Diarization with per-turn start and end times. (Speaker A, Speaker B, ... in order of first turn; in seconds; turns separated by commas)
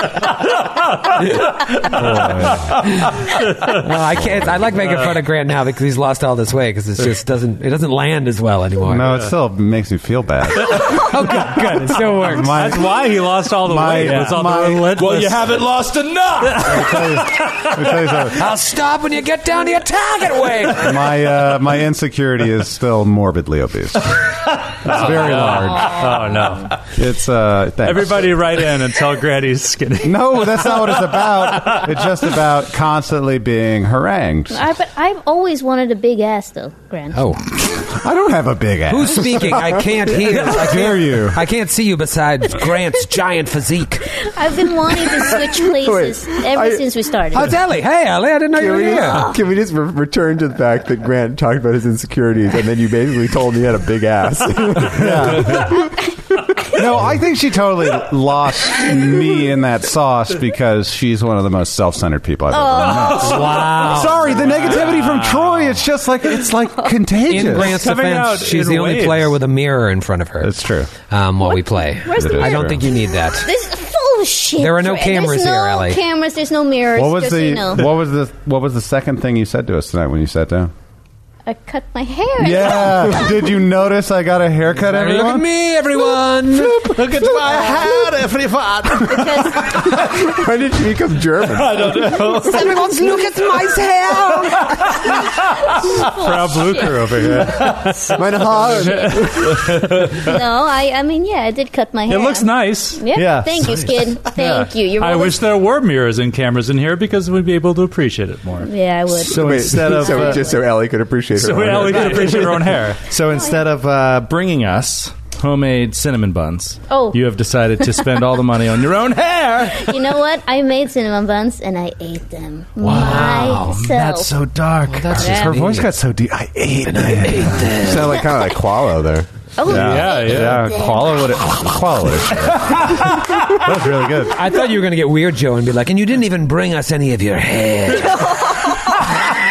Speaker A: 1.5-1.9, Speaker B: 1.9-2.7, Speaker C: 2.9-9.2, Speaker A: 3.3-3.7, Speaker B: 8.8-11.2, Speaker C: 10.7-12.7, Speaker A: 10.7-15.7, Speaker B: 11.8-15.0, Speaker D: 13.9-17.0, Speaker B: 16.6-18.4, Speaker A: 16.6-17.7, Speaker C: 18.3-21.1, Speaker B: 20.7-26.0, Speaker A: 24.8-26.8, Speaker B: 26.9-28.4, Speaker A: 27.8-31.9, Speaker B: 30.0-34.6, Speaker E: 34.5-37.3, Speaker C: 37.1-37.5, Speaker B: 37.7-41.4, Speaker C: 38.9-44.1, Speaker E: 44.2-47.5, Speaker F: 45.8-46.9, Speaker C: 47.3-49.3, Speaker F: 48.6-55.8, Speaker B: 54.9-55.7, Speaker B: 56.7-67.8, Speaker E: 62.5-63.6, Speaker C: 63.1-64.2, Speaker D: 64.2-65.8, Speaker A: 64.7-65.0, Speaker C: 67.3-70.5, Speaker A: 67.5-69.3, Speaker B: 70.4-70.9, Speaker C: 71.0-73.5, Speaker E: 71.4-77.9, Speaker B: 72.1-72.8, Speaker C: 74.6-76.0, Speaker B: 76.9-80.7, Speaker E: 81.5-83.4, Speaker B: 82.4-85.5, Speaker C: 84.8-87.3, Speaker D: 86.7-90.3, Speaker E: 89.1-89.8, Speaker F: 90.2-91.8, Speaker D: 91.5-93.0, Speaker C: 92.3-95.0, Speaker A: 95.6-99.2, Speaker E: 95.8-97.2, Speaker D: 97.5-97.9, Speaker F: 98.1-99.6, Speaker E: 98.7-99.2, Speaker D: 99.6-100.2, Speaker E: 100.1-105.4, Speaker A: 102.1-103.1, Speaker D: 103.1-103.9, Speaker A: 104.2-108.7, Speaker E: 108.6-110.5, Speaker D: 109.2-110.4, Speaker F: 109.2-112.5, Speaker A: 111.4-113.0, Speaker D: 111.7-120.0, Speaker E: 116.9-117.2, Speaker E: 117.8-118.1, Speaker E: 119.7-124.3, Speaker D: 122.8-127.8, Speaker C: 122.8-124.3, Speaker C: 124.8-125.9, Speaker E: 125.2-125.6, Speaker B: 125.4-127.5, Speaker C: 126.9-128.2, Speaker F: 127.8-129.3, Speaker E: 129.6-131.2, Speaker B: 129.7-134.3, Speaker A: 129.7-130.7, Speaker D: 133.6-134.3, Speaker C: 134.3-138.4, Speaker A: 138.7-138.9